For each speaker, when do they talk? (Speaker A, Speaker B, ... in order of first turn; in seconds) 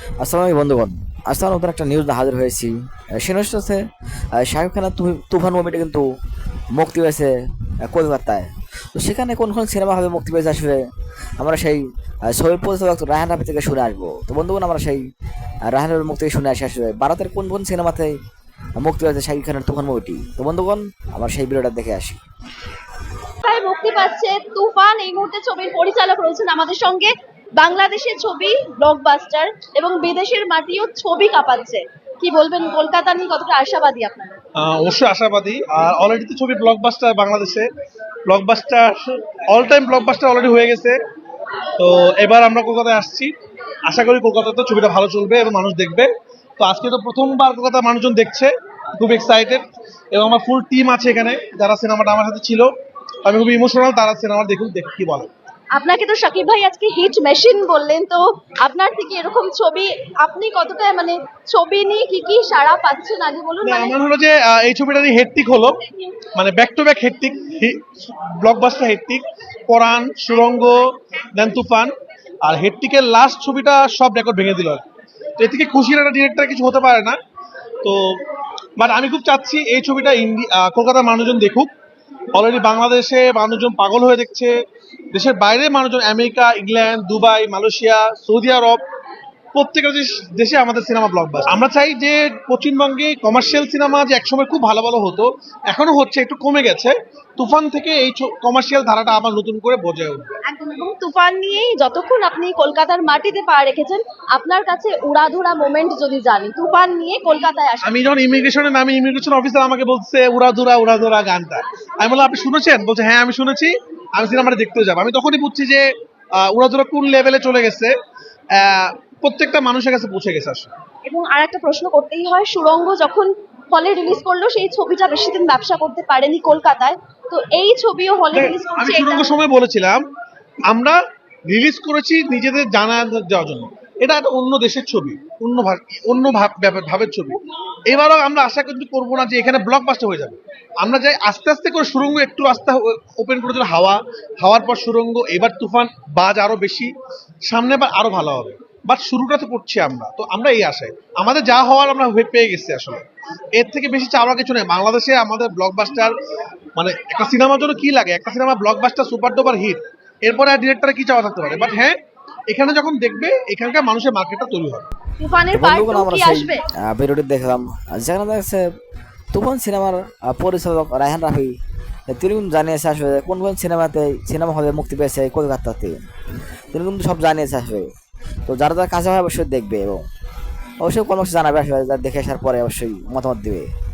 Speaker A: 0.2-3.8, 4.3-6.0, 6.7-7.3, 7.8-10.8, 11.4-15.0, 15.6-18.1, 18.8-22.2, 165.5-168.6, 169.3-171.5, 172.1-176.0, 176.7-177.9, 178.4-180.0, 180.8-183.7
Speaker B: 23.4-34.4, 55.7-64.0, 100.5-108.0, 121.0-129.3, 165.2-166.6
Speaker C: 34.5-37.7, 38.2-41.0, 41.8-43.3, 43.9-52.7, 53.2-55.3, 63.6-65.8, 66.3-74.8, 75.4-77.2, 77.8-78.2, 78.8-81.7, 82.3-84.5, 85.1-88.8, 89.5-100.3, 107.8-117.9, 118.5-120.7, 128.3-130.0, 130.7-146.9, 147.4-156.1, 156.8-161.9, 162.5-164.9